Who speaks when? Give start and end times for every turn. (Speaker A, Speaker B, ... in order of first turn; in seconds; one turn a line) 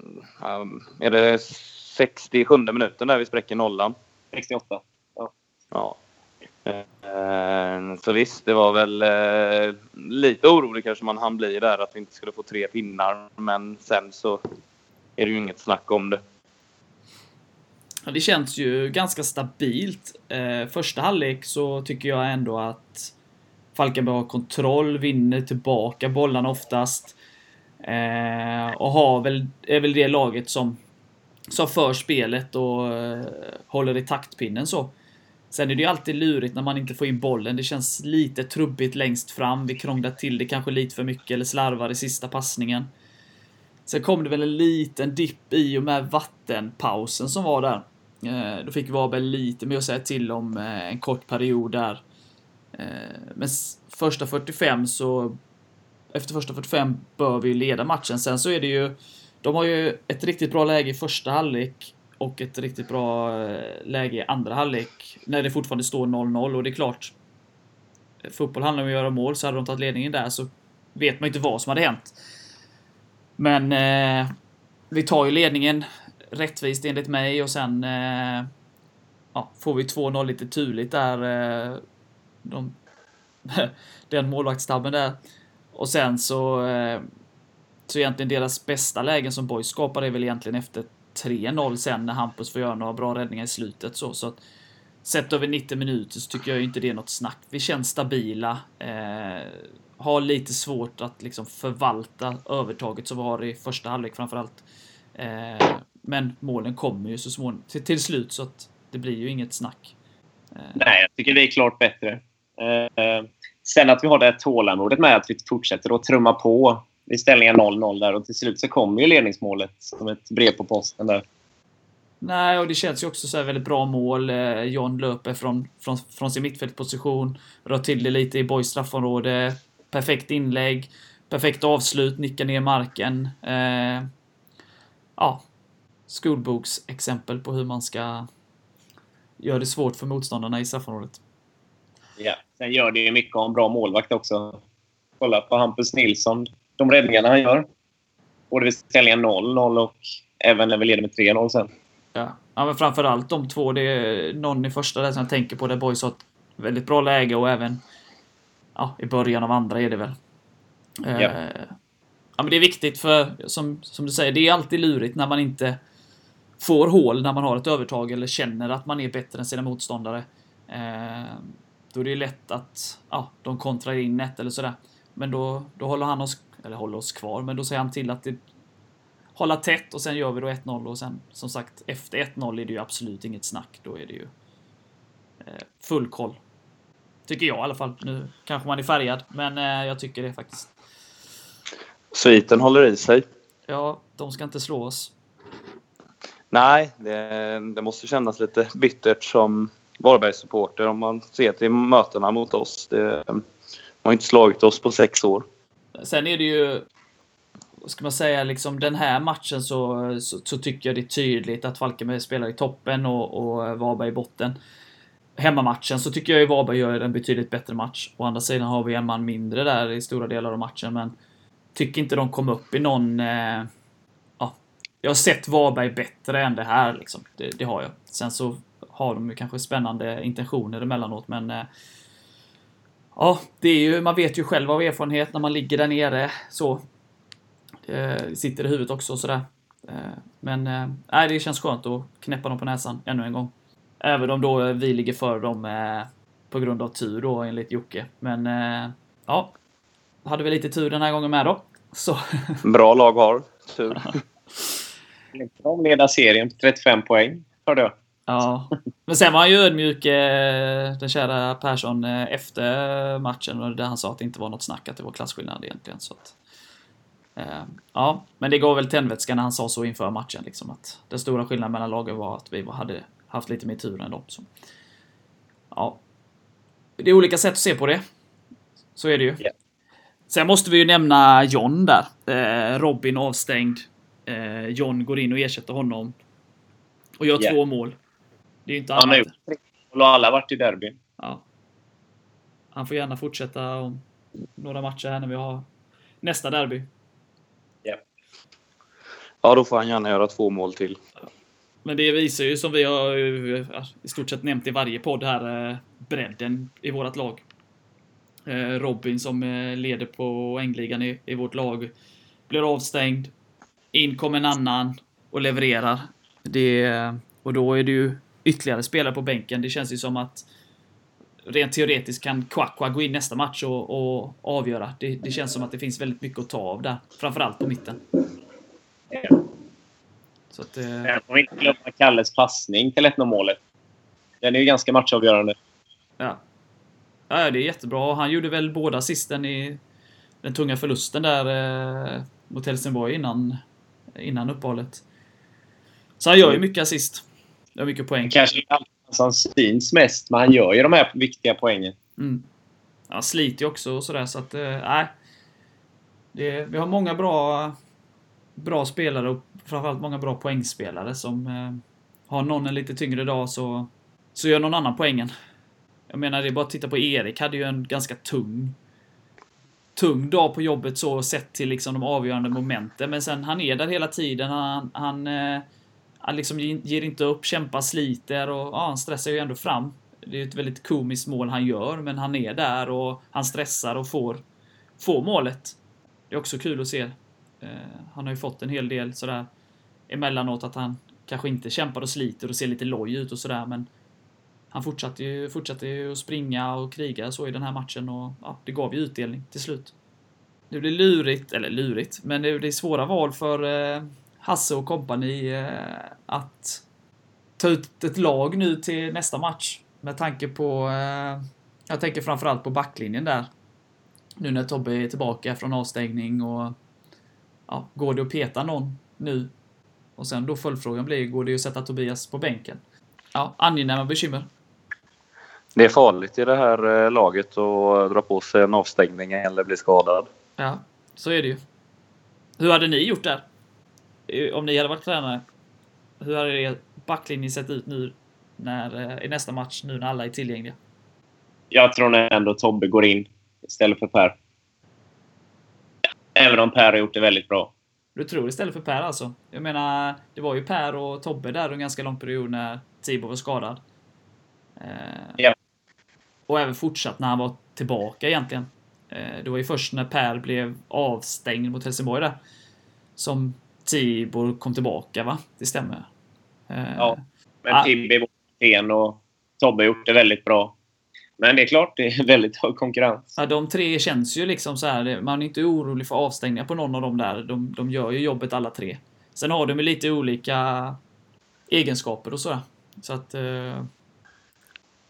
Speaker A: 0.4-4.0
Speaker B: 4.3-5.3
Speaker A: 5.7-6.0
Speaker A: 6.7-14.4
Speaker A: 15.2-16.2
Speaker C: 18.1-23.1
Speaker C: 23.8-27.2
Speaker C: 27.8-30.8
Speaker C: 31.5-34.9
Speaker C: 35.5-42.9
Speaker C: 43.9-52.0
Speaker C: 52.7-55.4
Speaker C: 56.1-67.1
Speaker C: 68.2-72.2
Speaker C: 73.4-74.3
Speaker C: 74.9-78.5
Speaker C: 79.3-81.8
Speaker C: 82.4-82.8
Speaker C: 83.5-85.2
Speaker C: 85.7-87.0
Speaker C: 87.9-94.4
Speaker C: 95.0-104.6
Speaker C: 105.2-110.0
Speaker C: 110.5-110.9
Speaker B: 110.8-121.2
Speaker C: 122.2-134.1
Speaker C: 135.2-135.4
Speaker C: 136.1-138.3
Speaker C: 139.4-141.2
Speaker B: 142.2-144.6
Speaker B: 145.2-147.7
Speaker B: 148.5-151.7
Speaker C: 152.2-157.8
Speaker C: 158.8-160.2
Speaker C: 161.0-161.8
Speaker C: 162.4-165.8
Speaker C: 166.6-178.4
Speaker C: 179.4-184.3
Speaker C: 185.4-186.4
Speaker C: 187.3-190.7
Speaker A: 192.1-193.2
Speaker C: 193.7-195.1
Speaker A: 196.5-203.4
Speaker A: 204.0-205.5
Speaker C: 206.0-206.9
Speaker C: 207.8-214.6
Speaker C: 215.4-221.2
Speaker C: 221.8-223.7
Speaker C: 224.4-231.7
Speaker C: 233.2-236.8
Speaker C: 237.9-249.5
Speaker C: 250.2-252.6
Speaker A: 252.6-254.1
Speaker B: 255.3-257.9
Speaker C: 258.3-266.4
Speaker C: 267.4-274.5
Speaker C: 275.7-276.0
Speaker C: 277.0-278.0
Speaker C: 279.0-279.4
Speaker C: 280.3-286.2
Speaker C: 287.2-288.0
Speaker C: 288.7-289.3
Speaker B: 289.0-291.0
Speaker C: 291.2-291.4
Speaker C: 292.7-294.0
Speaker C: 294.6-295.7
Speaker C: 296.2-296.9
Speaker A: 299.4-301.0
Speaker C: 301.9-307.4
Speaker C: 308.5-311.9
Speaker C: 312.5-313.3
Speaker C: 313.9-320.4
Speaker C: 321.5-328.0
Speaker C: 330.5-331.2
Speaker B: 331.1-333.6
Speaker B: 334.4-335.6
Speaker C: 337.3-339.8
Speaker C: 340.4-343.6
Speaker C: 344.2-345.0
Speaker C: 346.2-347.2
Speaker C: 347.8-348.4
Speaker B: 348.3-351.9
Speaker C: 352.2-352.5
Speaker C: 353.1-355.1
Speaker C: 356.3-357.8
Speaker C: 358.6-365.3
Speaker C: 366.1-368.8
Speaker C: 370.0-375.7
Speaker C: 376.2-384.4
Speaker C: 385.0-385.8
Speaker C: 386.3-389.5
Speaker C: 390.1-393.9
Speaker C: 394.7-399.9
Speaker C: 400.7-406.8
Speaker C: 407.6-413.5
Speaker C: 414.4-416.8
Speaker C: 417.7-419.5
Speaker C: 420.2-422.8
Speaker C: 423.4-424.5
Speaker A: 425.8-430.3
Speaker C: 430.6-431.6
Speaker C: 432.6-433.4
Speaker C: 434.3-435.4
Speaker C: 436.2-440.8
Speaker B: 441.7-444.4
Speaker B: 446.4-447.7
Speaker C: 448.1-453.8
Speaker C: 454.8-455.4
Speaker C: 456.5-462.4
Speaker C: 463.2-466.1
Speaker C: 466.7-467.9
Speaker B: 467.0-470.8
Speaker B: 471.4-473.4
Speaker C: 473.4-481.0
Speaker C: 481.7-483.9